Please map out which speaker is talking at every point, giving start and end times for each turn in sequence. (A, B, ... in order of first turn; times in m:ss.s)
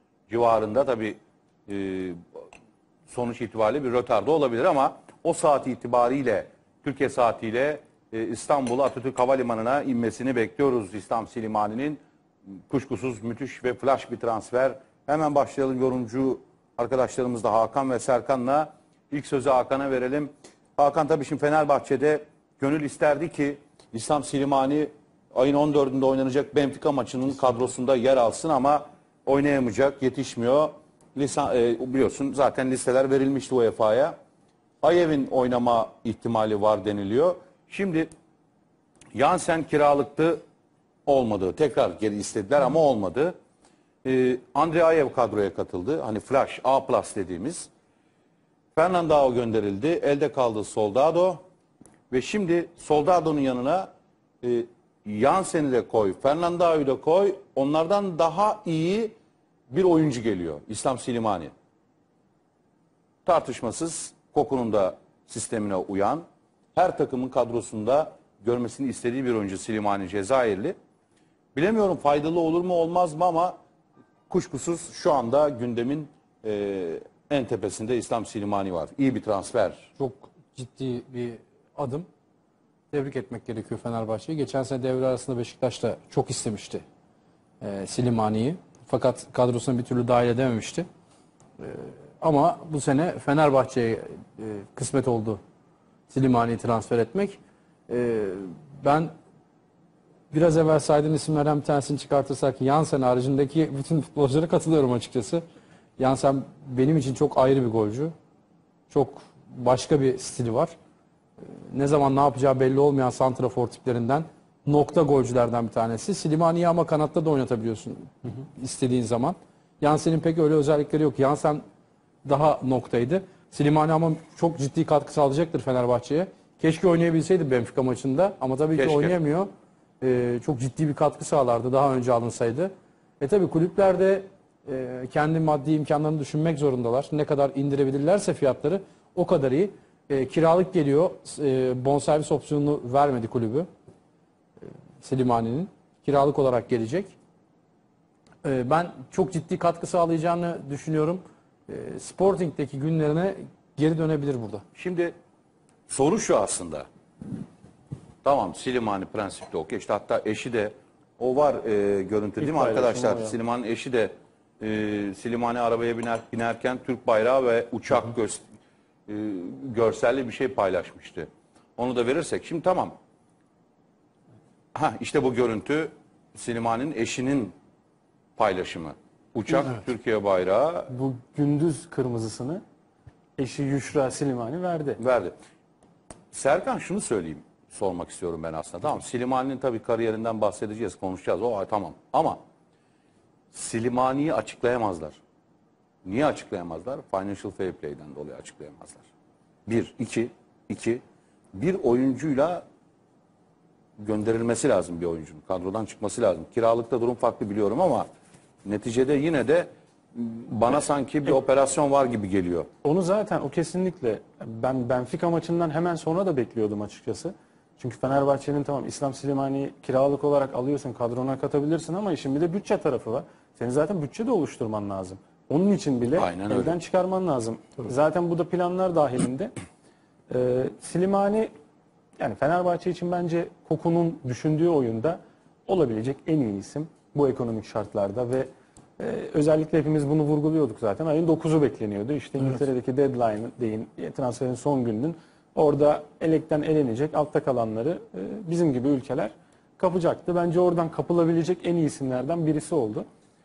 0:00.3-0:02.2 A
0:03.1-0:12.0 A
0:12.7-0:34.2 A
0:34.8-0:38.1 A
0:39.1-0:40.4 A
0:41.0-0:43.3 A
0:44.0-0:47.7 A
0:48.7-0:51.4 A
0:52.1-0:53.9 A
0:54.4-0:59.1 A
0:59.7-1:01.5 A
1:03.2-1:10.7 A
1:11.5-1:13.6 A
1:14.3-1:19.9 A
1:20.0-1:22.1 B
1:22.9-1:26.8 B
1:27.6-1:30.8 B
1:31.6-1:35.4 B
1:36.1-1:39.1 B
1:40.3-1:45.4 B
1:46.0-1:48.1 B
1:48.9-1:50.7 B
1:51.7-2:01.6 B
2:02.2-2:09.5 B
2:08.8-2:09.2 A
2:10.0-2:23.7 B
2:25.0-2:27.1 B
2:28.4-2:34.6 B
2:34.7-2:35.1 A
2:35.9-2:36.9 A
2:38.2-2:48.4 A
2:42.4-2:43.4 C
2:49.1-2:53.0 A
2:54.7-2:57.5 A
2:58.4-3:00.9 A
3:00.9-3:02.6 C
3:03.4-3:05.0 C
3:05.0-3:05.3 A
3:06.3-3:12.4 A
3:13.5-3:15.2 A
3:16.0-3:19.0 A
3:19.6-3:21.0 A
3:21.5-3:22.6 A
3:24.0-3:28.0 A
3:28.6-3:32.7 A
3:32.8-3:49.5 C
3:46.2-3:46.8 A
3:50.3-3:51.5 C
3:52.2-4:13.0 C